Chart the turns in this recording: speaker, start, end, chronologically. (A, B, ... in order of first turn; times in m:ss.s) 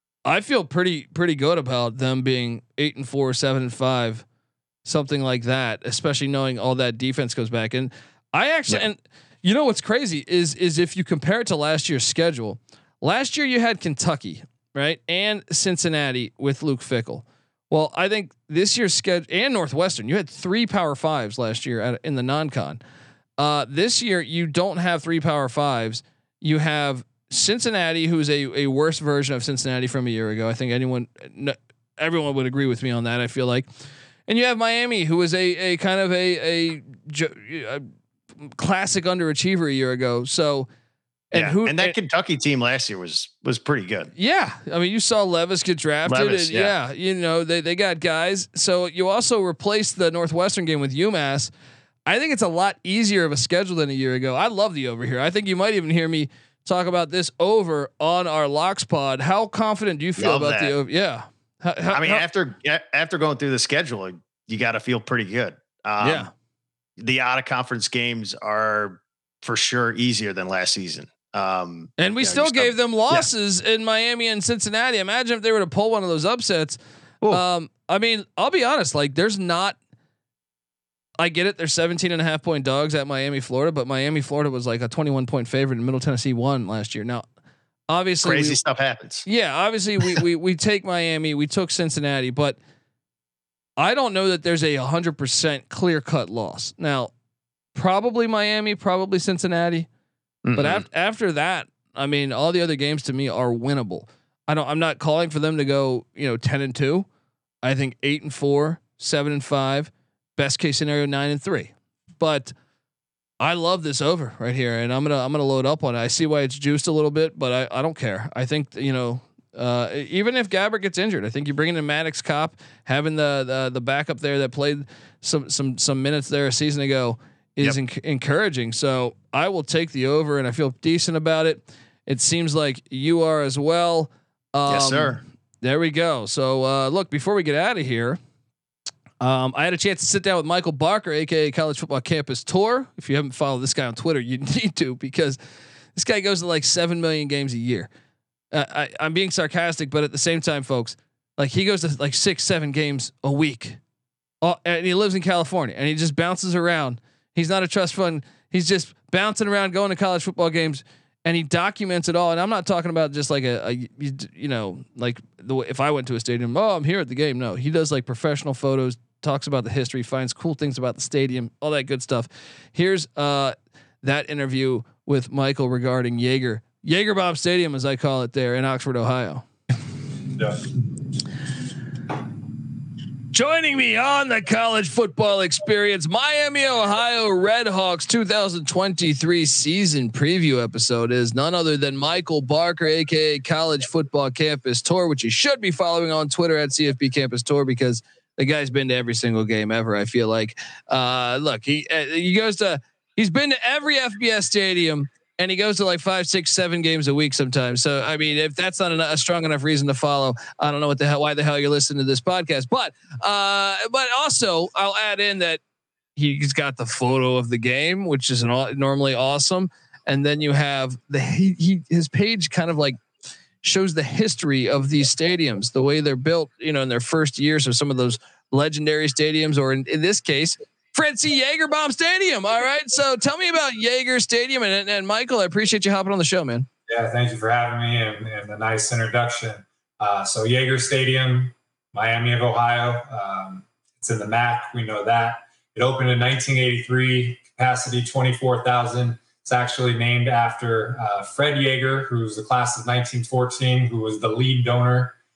0:00.2-0:04.2 A
0:04.8-0:22.8 A
0:23.4-0:33.7 A
0:34.3-0:37.8 A
0:38.4-0:40.7 A
0:41.3-0:41.9 A
0:41.3-0:44.1 B
0:44.2-0:51.5 A
0:46.0-0:46.7 B
0:52.1-1:02.2 A
1:00.2-1:00.7 B
1:01.9-1:06.3 B
1:06.0-1:06.3 A
1:07.0-1:13.3 B
1:12.0-1:16.8 A
1:17.3-1:19.8 A
1:21.2-1:27.2 A
1:27.9-1:28.6 A
1:28.2-1:29.2 B
1:29.2-1:32.6 A
1:33.8-1:37.1 A
1:37.7-1:39.9 A
1:40.4-1:40.8 B
1:40.6-1:47.0 A
1:47.6-1:52.5 A
1:53.4-2:18.2 A
2:14.7-2:15.2 B
2:19.2-2:25.4 A
2:25.9-2:27.9 A
2:28.5-2:33.8 A
2:34.4-2:59.4 A
3:00.4-3:00.6 C
3:03.3-3:35.6 A
3:36.2-3:43.0 A
3:43.6-3:56.7 A
3:56.9-4:15.2 C